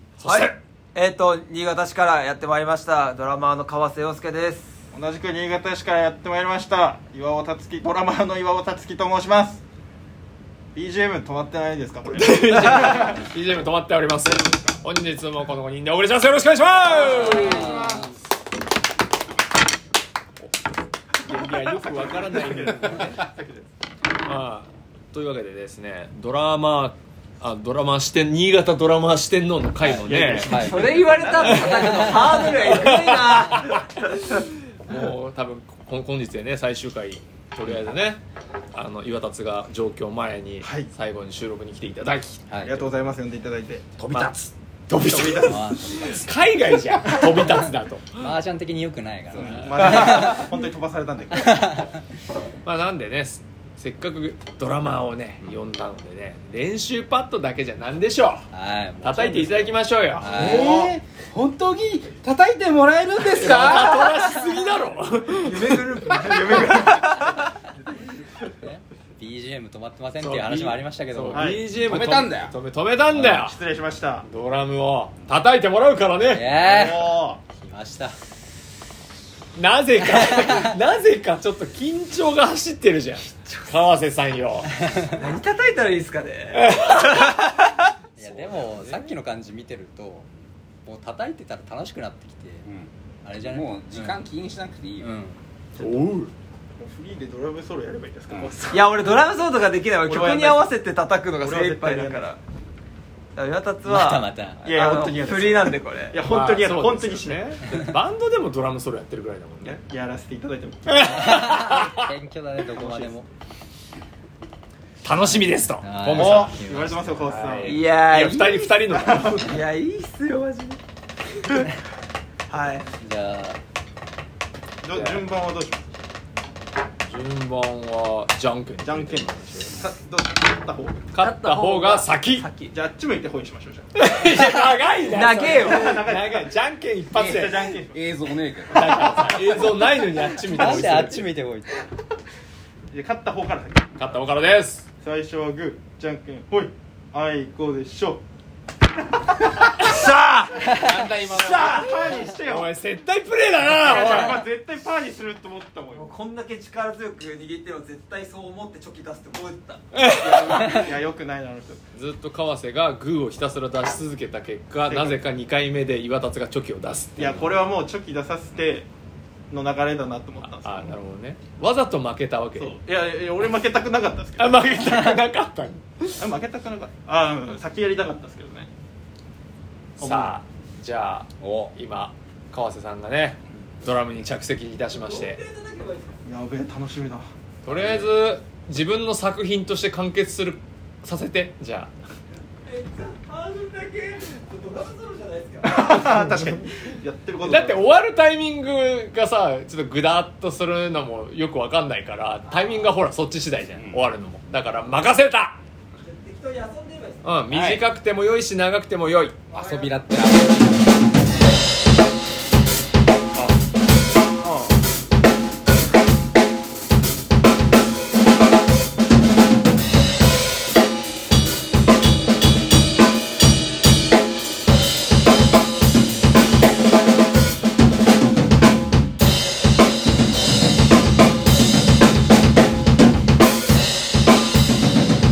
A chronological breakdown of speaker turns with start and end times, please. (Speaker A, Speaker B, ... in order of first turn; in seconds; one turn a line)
Speaker A: 0.2-0.5
Speaker B: 0.2-4.8
Speaker C: 4.9-9.6
Speaker C: 10.8-13.3
Speaker A: 12.2-18.0
Speaker C: 14.2-14.6
Speaker D: 17.0-18.1
Speaker C: 17.1-18.1
Speaker A: 21.2-23.2
Speaker C: 21.3-23.7
Speaker A: 24.2-30.7
Speaker D: 29.8-33.6
Speaker C: 29.9-32.0
Speaker B: 30.5-34.4
Speaker A: 31.4-38.2
Speaker A: 38.7-42.4
Speaker C: 40.6-40.9
Speaker D: 42.5-42.8
Speaker C: 42.6-43.9
Speaker E: 44.0-44.4
Speaker A: 44.1-48.3
Speaker C: 44.9-46.1
Speaker D: 45.4-46.2
Speaker D: 47.2-50.5
Speaker C: 49.4-51.8
Speaker D: 51.5-51.8
Speaker A: 52.6-58.5
Speaker D: 58.5-60.8
Speaker A: 59.0-60.7
Speaker C: 60.2-61.0
Speaker E: 60.2-64.2
Speaker A: 63.2-66.2
Speaker D: 63.7-64.5
Speaker B: 65.3-67.5
Speaker C: 66.1-67.3
Speaker D: 68.6-71.5
Speaker A: 70.2-73.6
Speaker C: 71.3-71.7
Speaker E: 71.7-72.5
Speaker C: 73.1-74.3
Speaker A: 74.2-76.5
Speaker D: 76.3-78.2
Speaker C: 76.5-77.4
Speaker A: 79.6-84.7
Speaker D: 80.1-80.7
Speaker B: 83.5-83.7
Speaker B: 85.0-87.9
Speaker A: 86.5-87.4
Speaker A: 88.2-89.2
Speaker D: 88.2-90.3
Speaker D: 90.8-92.7
Speaker E: 92.7-95.1
Speaker D: 93.2-94.2
Speaker D: 95.0-95.4
Speaker A: 95.8-96.3
Speaker C: 96.8-98.9
Speaker B: 98.7-102.4
Speaker C: 100.0-100.7
Speaker C: 101.4-102.3
Speaker B: 103.3-106.2
Speaker D: 103.8-104.7
Speaker C: 104.7-107.5
Speaker A: 106.2-109.8
Speaker C: 109.6-111.2
Speaker A: 110.9-112.1
Speaker D: 111.1-113.3
Speaker C: 112.7-113.2
Speaker A: 115.0-116.6
Speaker D: 115.8-117.3
Speaker C: 116.1-117.8
Speaker A: 117.2-119.6
Speaker B: 117.6-120.8
Speaker C: 118.9-119.6
Speaker B: 122.5-122.9
Speaker D: 123.0-123.6
Speaker C: 124.8-125.9
Speaker A: 124.9-125.3
Speaker A: 127.0-129.8
Speaker C: 128.8-131.1
Speaker A: 131.1-132.5
Speaker B: 131.2-132.8
Speaker C: 132.7-133.9
Speaker A: 133.9-137.6
Speaker B: 135.0-136.1
Speaker C: 135.3-136.5
Speaker E: 137.1-139.6
Speaker C: 137.2-138.0
Speaker A: 138.7-141.3
Speaker D: 140.5-141.8
Speaker C: 142.9-143.9
Speaker A: 144.0-144.9
Speaker C: 145.0-148.2
Speaker C: 149.3-149.8
Speaker B: 149.8-152.2
Speaker E: 150.7-151.9
Speaker D: 150.7-151.0
Speaker C: 151.3-152.7
Speaker A: 152.4-154.4
Speaker C: 153.7-156.1
Speaker B: 155.9-160.6
Speaker A: 159.9-160.9
Speaker C: 160.1-161.8
Speaker A: 161.9-167.6
Speaker C: 164.9-165.2
Speaker C: 167.2-168.9
Speaker C: 169.5-171.0
Speaker A: 170.4-172.8
Speaker C: 172.6-174.7
Speaker A: 174.4-176.3
Speaker C: 176.2-178.7
Speaker A: 180.0-185.4
Speaker C: 180.0-180.4
Speaker E: 181.4-181.7
Speaker B: 184.9-186.2
Speaker C: 186.2-187.3
Speaker A: 187.7-191.9
Speaker E: 187.7-188.1
Speaker B: 192.6-196.2
Speaker C: 195.6-197.9
Speaker A: 197.4-205.6
Speaker E: 203.8-204.0
Speaker B: 206.0-207.3
Speaker A: 207.2-209.4
Speaker E: 207.5-207.8
Speaker B: 209.5-210.0
Speaker E: 209.5-211.0
Speaker C: 214.4-214.8